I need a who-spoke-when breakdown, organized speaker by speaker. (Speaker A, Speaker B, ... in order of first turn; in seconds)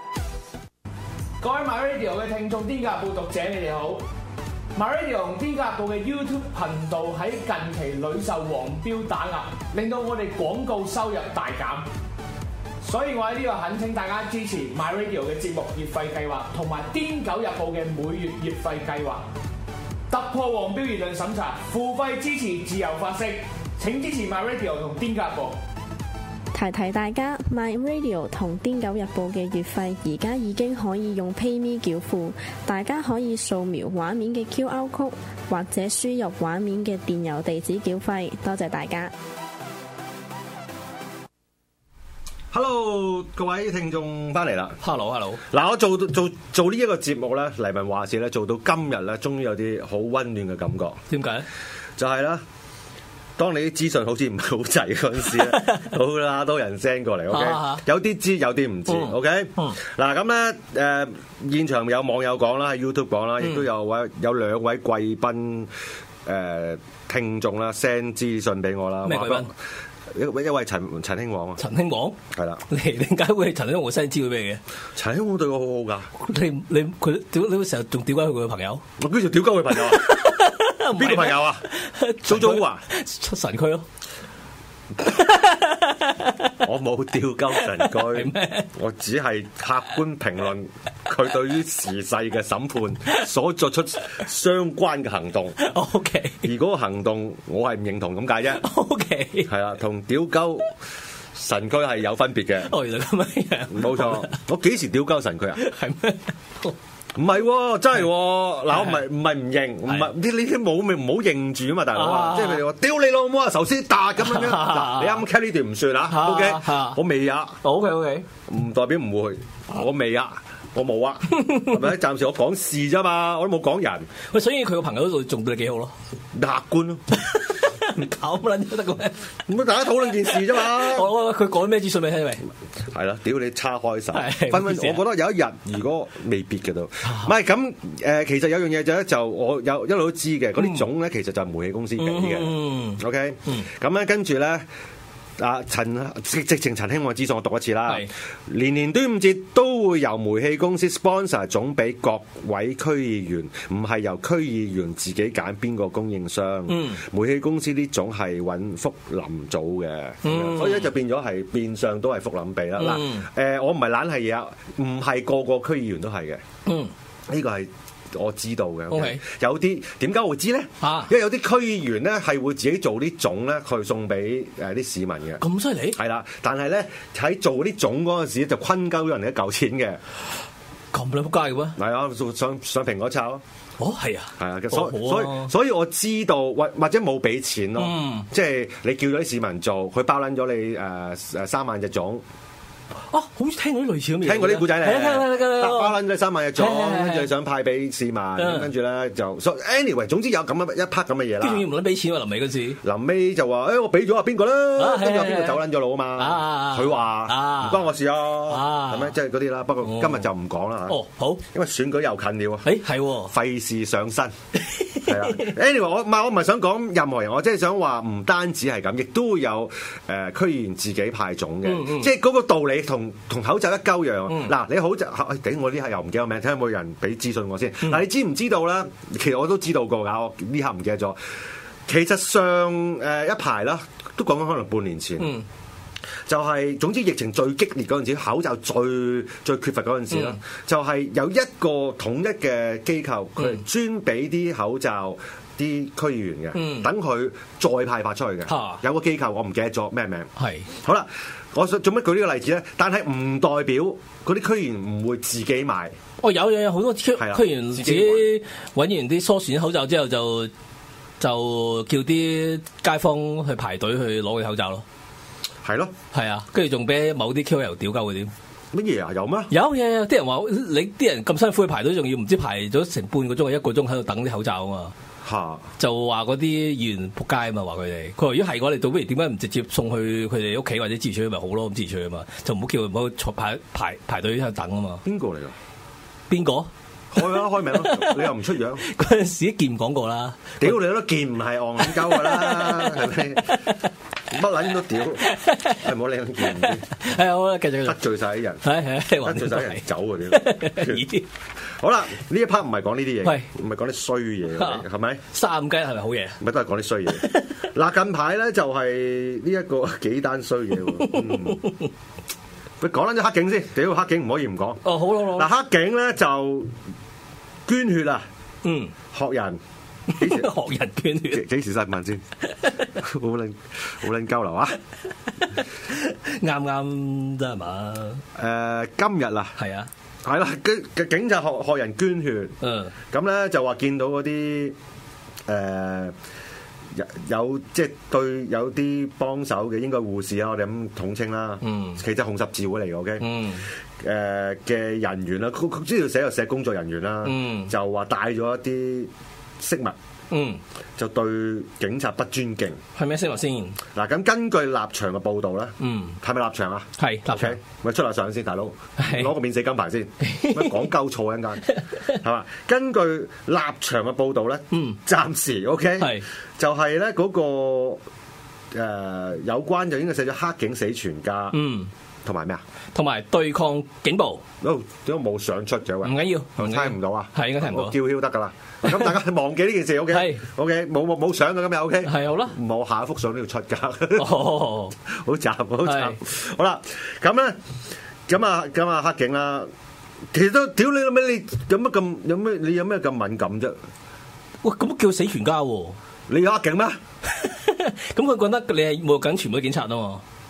Speaker A: 1.4-4.0, 4.7-11.9, 12.8-19.2, 20.1-25.6
Speaker B: 26.5-39.1
Speaker C: 42.5-44.8, 45.5-51.0, 52.0-52.4, 53.4-65.7, 66.2-69.5, 70.1-71.6, 72.3-72.6, 75.0-76.1, 79.0-80.2, 80.9-81.7, 82.2-82.8, 86.6-95.6, 96.4-98.6, 99.5-100.7, 101.3-102.7, 103.7-105.6, 107.1-117.6, 118.5-124.1, 126.3-127.0, 129.5-131.1, 132.9-144.7, 145.4-166.4, 167.3-175.4, 175.9-180.0, 181.8-183.4, 184.4-192.2, 194.2-201.7, 202.8-214.3, 215.0-231.3, 231.8-235.3, 236.3-250.3, 250.8-255.9, 257.2-258.3, 265.6-265.9, 268.7-269.5, 275.2-275.7, 285.0-285.5, 287.1-288.8, 290.6-293.6, 294.3-296.9, 297.8-298.6, 299.2-301.1, 301.8-305.2, 306.4-311.6, 312.8-316.8, 317.6-318.3, 319.1-319.6, 320.1-320.5, 321.3-322.2, 322.9-324.8, 328.4-329.6, 330.2-332.6, 333.1-334.8, 335.5-336.1, 336.9-343.3, 344.0-349.9, 351.0-352.8, 353.9-368.0, 368.7-371.6, 372.2-372.6, 374.6-384.4, 385.1-387.6, 388.3-389.7, 390.3-393.8, 396.3-397.0
Speaker D: 44.8-45.4, 51.1-51.5, 55.3-55.9, 57.3-57.8, 58.9-59.8, 69.0-69.5, 71.6-74.6, 76.2-78.8, 79.7-83.8, 85.0-86.6, 87.6-88.7, 95.6-96.4, 98.5-99.5, 102.6-104.4, 105.6-106.8, 111.9-112.6, 114.2-115.2, 116.0-117.0, 117.6-118.2, 124.3-125.9, 127.1-129.3, 130.2-132.4, 134.1-135.0, 140.6-140.8, 142.0-143.7, 156.7-157.0, 160.2-160.9, 162.8-163.3, 166.7-166.9, 168.9-169.2, 170.8-171.1, 175.4-176.0, 180.9-181.8, 183.8-185.5, 187.8-188.3, 193.1-196.0, 196.6-197.3, 198.4-198.7, 201.4-202.8, 204.8-205.6, 206.2-207.9, 208.5-209.1, 209.8-210.2, 210.9-211.4, 212.6-213.3, 214.7-215.5, 221.6-222.1, 235.2-235.4, 240.1-240.4, 246.5-246.9, 248.5-248.8, 250.4-250.7, 256.2-260.5, 261.2-264.8, 266.1-268.3, 269.5-274.9, 275.8-285.0, 286.3-288.3, 288.8-290.8, 291.8-293.8, 295.2-295.8, 296.4-298.0, 298.6-301.2, 304.6-306.4, 307.1-307.6, 311.0-311.9, 314.8-315.5, 318.6-318.9, 320.1-321.5, 325.4-328.2, 329.6-329.9, 332.6-332.9, 341.6-342.0, 343.2-343.6, 347.2-347.7, 350.3-350.6, 352.9-353.8, 355.8-356.2, 357.0-357.6, 359.0-359.3, 360.2-360.9, 361.7-362.1, 364.7-365.0, 366.0-366.2, 371.5-371.9, 372.9-374.4, 376.0-377.9, 378.9-379.1, 380.1-380.4, 382.0-382.6, 384.1-384.9, 385.8-386.2, 394.6-396.0, 397.3-400.2